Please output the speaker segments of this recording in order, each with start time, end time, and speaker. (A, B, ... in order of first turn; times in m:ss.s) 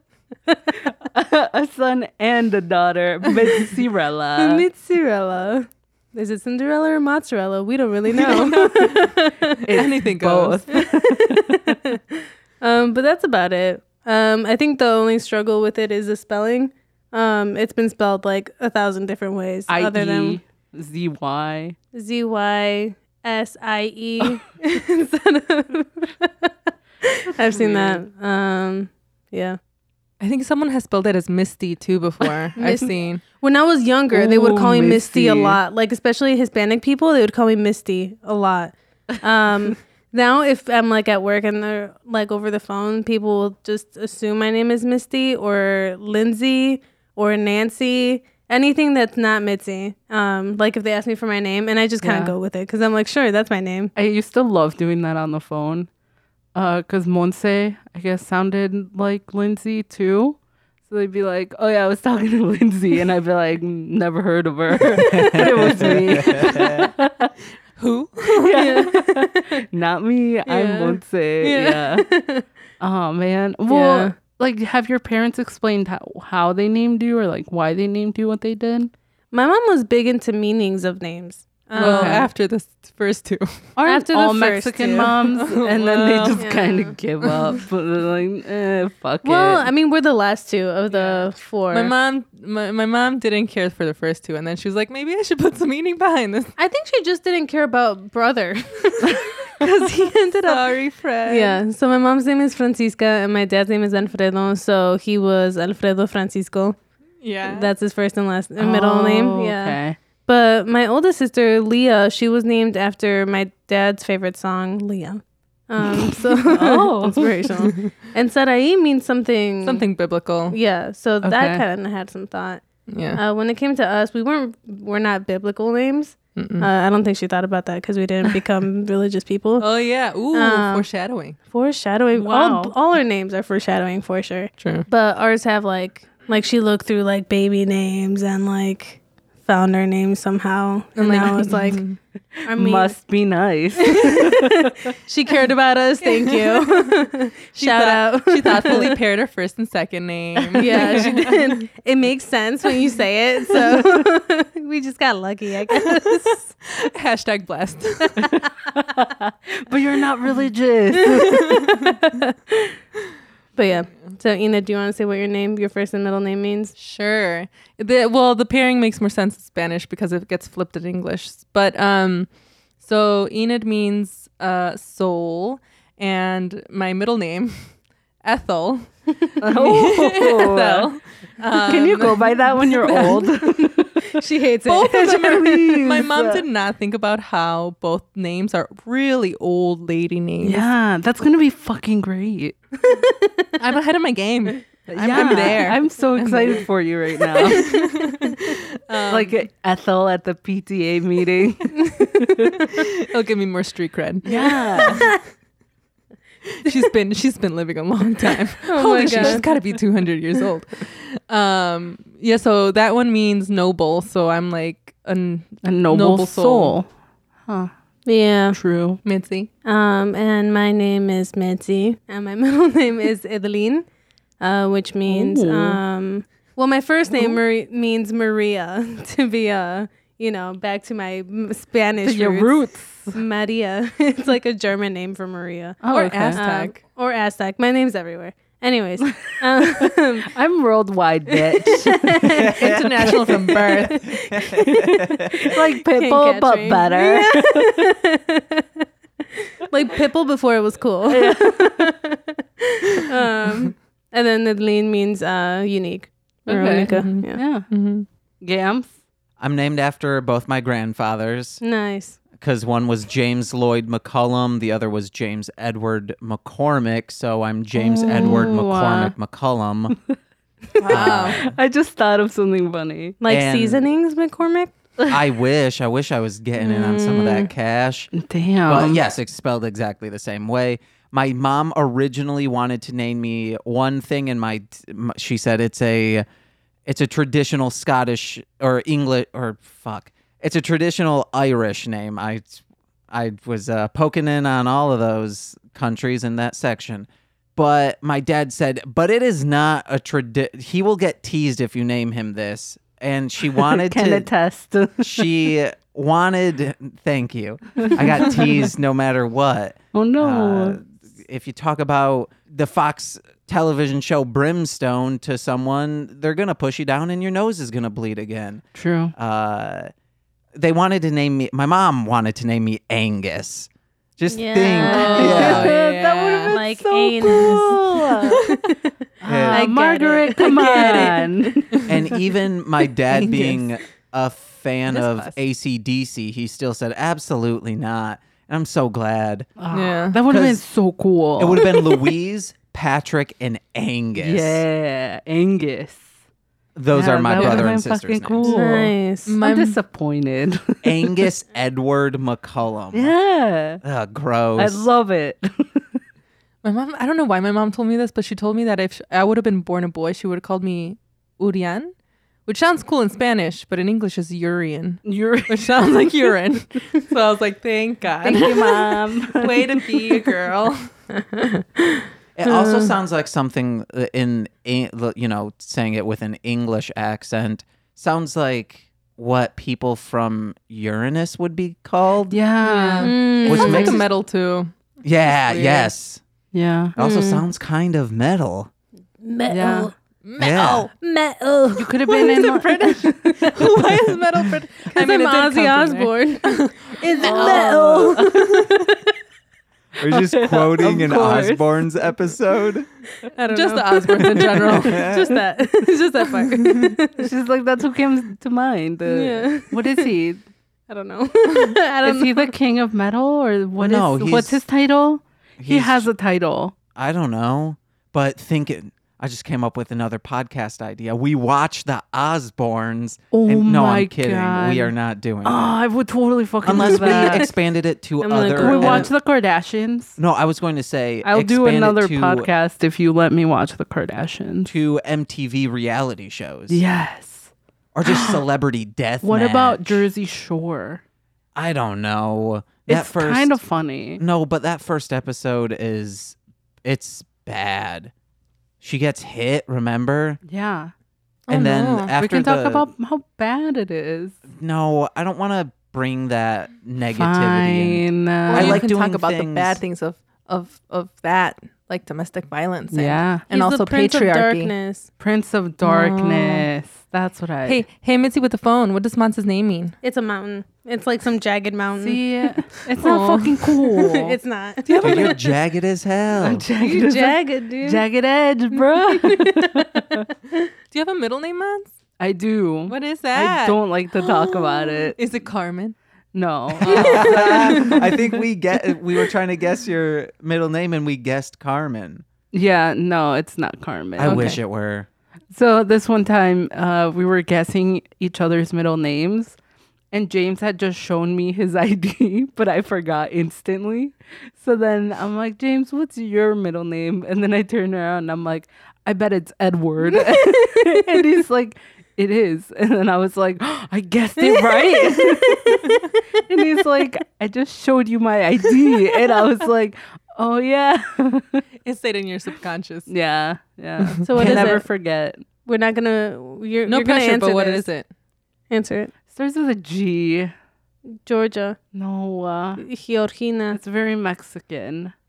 0:01.0-0:04.6 A
0:04.4-0:09.7 B
0:08.1-0:10.6 C
0:09.6-0:11.8 A
0:12.6-0:20.4 B
0:19.7-0:21.8 A
0:21.9-0:26.5 B
0:27.0-0:29.6 B
0:27.4-0:28.0 A
0:30.2-0:33.2 C
0:32.6-0:53.9 B
0:34.1-0:35.6 A
0:52.0-0:52.4 A
0:54.0-0:55.9 A
0:56.6-1:07.3 A
1:05.1-1:06.5 B
1:05.1-1:06.9 D
1:07.8-1:08.8 C
1:08.3-1:12.1 A
1:08.5-1:09.2 B
1:10.5-1:12.4 B
1:12.8-1:18.9 A
1:13.7-1:14.1 B
1:19.3-1:22.3 B
1:21.7-1:23.6 C
1:21.8-1:22.3 A
1:23.8-1:29.7 A
1:23.8-1:25.1 B
1:25.2-1:26.4 C
1:26.4-1:26.9 B
1:29.2-1:31.9 B
1:30.9-1:36.5 C
1:36.6-1:40.7 B
1:39.6-1:39.9 C
1:40.4-1:41.6 C
1:41.3-1:46.8 B
1:47.2-1:47.7 C
1:47.4-1:59.8 B
1:48.6-1:50.0 A
1:56.4-1:57.4 A
1:59.6-2:00.6 C
2:00.5-2:02.6 B
2:01.2-2:01.6 A
2:02.9-2:03.2 C
2:03.1-2:09.7 B
2:06.4-2:06.7 C
2:09.6-2:11.4 C
2:10.3-2:10.9 B
2:11.5-2:21.8 B
2:12.2-2:12.7 A
2:14.6-2:14.9 C
2:21.0-2:22.0 C
2:22.4-2:22.9 B
2:22.5-2:24.9 A
2:24.0-2:29.0 B
2:26.0-2:26.9 C
2:27.6-2:31.5 C
2:30.5-2:36.4 B
2:30.7-2:31.1 A
2:36.0-2:38.4 C
2:38.7-2:41.8 A
2:41.2-2:42.8 B
2:41.4-2:41.8 C
2:43.6-2:46.8 B
2:46.8-3:03.2 C
2:59.4-3:00.9 A
3:01.6-3:04.2 A
3:02.9-3:03.3 B
3:04.1-3:05.6 B
3:04.6-3:10.7 C
3:04.9-3:06.4 A
3:10.4-3:12.6 A
3:12.8-3:13.6 B
3:13.6-3:16.7 C
3:14.9-3:17.7 A
3:15.2-3:15.5 B
3:17.4-3:19.4 C
3:17.5-3:18.5 B
3:19.1-3:22.6 A
3:22.7-3:25.1 C
3:24.2-3:25.1 A
3:24.4-3:25.2 B
3:26.6-3:36.8 C
3:28.7-3:29.5 B
3:29.1-3:29.4 A
3:35.6-3:36.9 A
3:38.1-3:38.6 B
3:38.5-3:39.0 A
3:39.0-3:39.5 C
3:39.6-3:43.9 B
3:44.4-4:00.3 B
3:45.1-3:45.8 A
3:52.0-3:53.2 A
3:55.8-3:56.4 A
3:55.9-3:56.8 C
3:59.6-4:02.3 A
4:01.6-4:02.6 B
4:02.3-4:05.6 D
4:02.6-4:04.1 C
4:03.6-4:04.5 B
4:04.7-4:07.8 A
4:05.9-4:08.8 B
4:09.6-4:17.4 B
4:11.1-4:11.8 A
4:16.5-4:17.7 A
4:16.5-4:18.1 C
4:18.4-4:18.9 A
4:19.4-4:21.6 D
4:21.6-4:22.2 B
4:22.3-4:30.0 D
4:27.8-4:29.1 A
4:30.8-4:33.2 A
4:30.8-4:31.6 D
4:30.9-4:31.4 C
4:33.2-4:34.7 B
4:33.3-4:33.8 D
4:35.1-4:38.1 D
4:36.6-4:37.5 B
4:38.1-4:39.0 A
4:38.7-4:46.2 D
4:46.9-5:04.3 D
5:03.5-5:05.5 A
5:05.0-5:19.9 D
5:07.8-5:08.3 A
5:09.9-5:10.8 A
5:18.8-5:19.1 A
5:20.6-5:25.7 D
5:24.3-5:25.7 B
5:24.8-5:26.6 C
5:25.0-5:28.4 A
5:26.5-5:28.9 B
5:27.2-5:27.6 C
5:29.2-5:31.9 A
5:29.3-5:29.7 D
5:29.5-5:31.2 B
5:30.4-5:31.9 C
5:31.9-5:39.5 D
5:33.1-5:33.6 C
5:39.6-5:41.8 A
5:39.7-5:40.2 C
5:40.3-5:40.6 D
5:41.4-5:44.6 D
5:44.2-5:46.1 A
5:46.8-5:48.5 D
5:46.9-5:51.2 A
5:47.4-5:47.6 C
5:48.4-5:49.3 B
5:49.3-5:49.8 C
5:50.8-5:53.1 D
5:52.9-5:53.8 A
5:53.8-5:54.9 D
5:54.6-5:56.0 A
5:56.6-6:01.9 C
6:02.4-6:10.9 C
6:05.0-6:06.3 A
6:08.2-6:10.1 A
6:12.4-6:22.4 D
6:12.4-6:12.9 B
6:22.3-6:23.2 A
6:22.6-6:24.7 C
6:23.0-6:24.0 B
6:23.4-6:24.1 D
6:25.0-6:26.2 D
6:25.2-6:25.9 C
6:26.5-6:26.9 A
6:27.0-6:28.7 D
6:27.0-6:27.4 B
6:29.2-6:29.9 B
6:29.5-6:29.9 A
6:30.2-6:30.9 C
6:30.4-6:30.9 D
6:30.6-6:32.4 B
6:31.8-6:33.6 A
6:32.1-6:38.8 C
6:33.2-6:33.8 B
6:34.9-6:39.0 B
6:37.2-6:38.4 A
6:40.0-6:42.9 D
6:40.0-6:41.7 A
6:43.4-6:47.3 B
6:43.4-6:45.1 C
6:44.5-6:45.3 D
6:46.4-6:47.0 C
6:47.2-6:50.4 A
6:49.1-6:50.1 B
6:50.9-6:52.5 B
6:52.0-6:56.8 A
6:53.8-6:54.6 D
6:55.6-6:56.1 D
6:56.9-7:05.7 D
7:03.3-7:04.9 A
7:05.4-7:07.5 A
7:06.6-7:09.1 D
7:07.1-7:07.4 B
7:08.2-7:09.1 B
7:08.6-7:10.2 A
7:10.2-7:12.5 D
7:11.2-7:14.7 A
7:14.6-7:16.8 D
7:16.7-7:17.5 A
7:17.9-7:20.1 D
7:18.0-7:18.4 A
7:19.2-7:21.0 A
7:21.6-7:23.6 D
7:22.9-7:24.2 A
7:24.2-7:28.1 D
7:28.8-7:30.4 D
7:30.5-7:30.9 A
7:31.5-7:32.1 C
7:31.5-7:32.9 D
7:32.2-7:34.4 A
7:34.5-7:39.8 D
7:37.1-7:38.8 A
7:38.5-7:44.7 C
7:42.9-7:43.4 A
7:43.5-7:45.1 B
7:45.2-7:47.8 A
7:45.8-7:46.7 C
7:47.6-7:49.9 C
7:50.0-7:52.2 B
7:52.0-7:54.4 A
7:53.0-7:53.7 C
7:53.9-7:55.2 B
7:54.8-7:55.6 C
7:55.0-7:56.6 D
7:56.4-8:00.3 A
7:56.8-7:58.0 B
7:58.7-8:00.2 B
8:00.9-8:01.9 C
8:02.2-8:05.2 A
8:02.9-8:06.0 C
8:06.3-8:08.2 A
8:06.8-8:08.1 C
8:06.8-8:12.2 D
8:12.5-8:14.6 A
8:14.2-8:15.1 D
8:14.3-8:14.5 C
8:15.5-8:19.6 A
8:20.1-8:41.6 A
8:30.6-8:31.0 B
8:34.4-8:36.0 B
8:41.8-8:43.1 C
8:43.1-8:45.4 A
8:44.2-8:44.9 B
8:44.4-8:44.7 D
8:45.6-8:47.9 B
8:46.9-8:48.1 C
8:48.7-8:49.1 B
8:49.3-8:50.5 A
8:51.2-8:51.8 B
8:51.9-8:52.8 A
8:52.8-8:53.8 B
8:53.7-8:55.1 A